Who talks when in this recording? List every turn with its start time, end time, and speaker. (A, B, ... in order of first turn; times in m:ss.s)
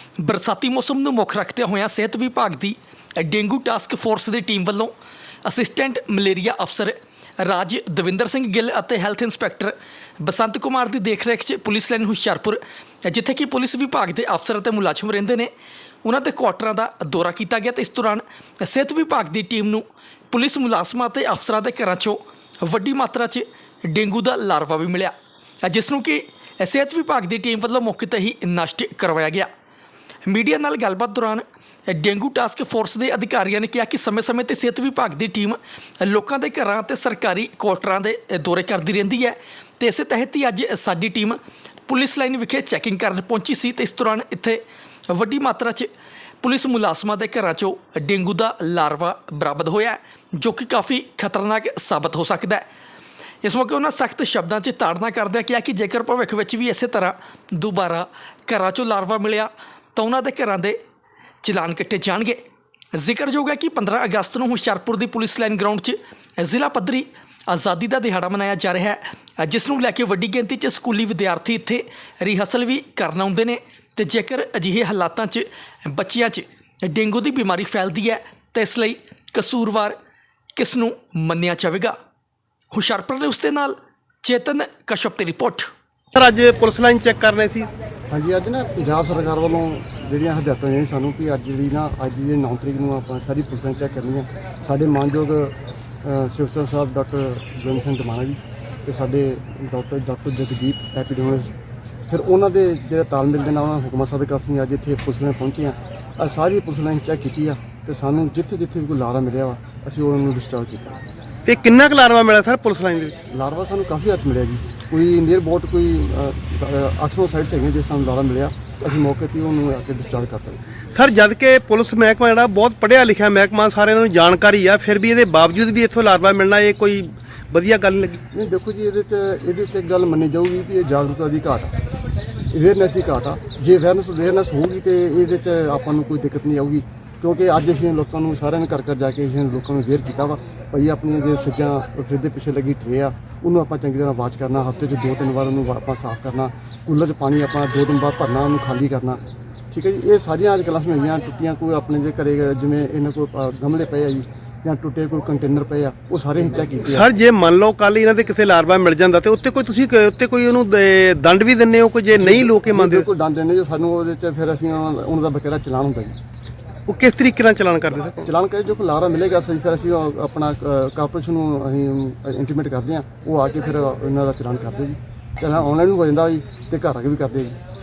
0:00.2-0:04.9 A
0:05.4-0:15.5 A
0:16.0-0:25.1 A
0:25.6-0:29.5 A
0:30.3-0:45.9 A
0:46.4-0:52.6 A
0:53.4-1:00.8 A
1:01.4-1:02.4 A
1:02.9-1:20.0 A
1:20.6-1:21.9 A
1:22.7-1:25.7 A
1:26.1-1:27.7 B
1:28.1-1:41.5 C
1:42.1-1:51.0 C
1:51.4-1:53.2 B
1:53.3-2:00.6 C
2:00.9-2:08.2 B
2:08.3-2:11.7 C
2:12.5-2:29.2 C
2:29.7-2:37.1 C
2:36.9-2:43.0 B
2:42.2-2:46.2 C
2:46.9-2:48.3 B
2:48.2-2:57.6 C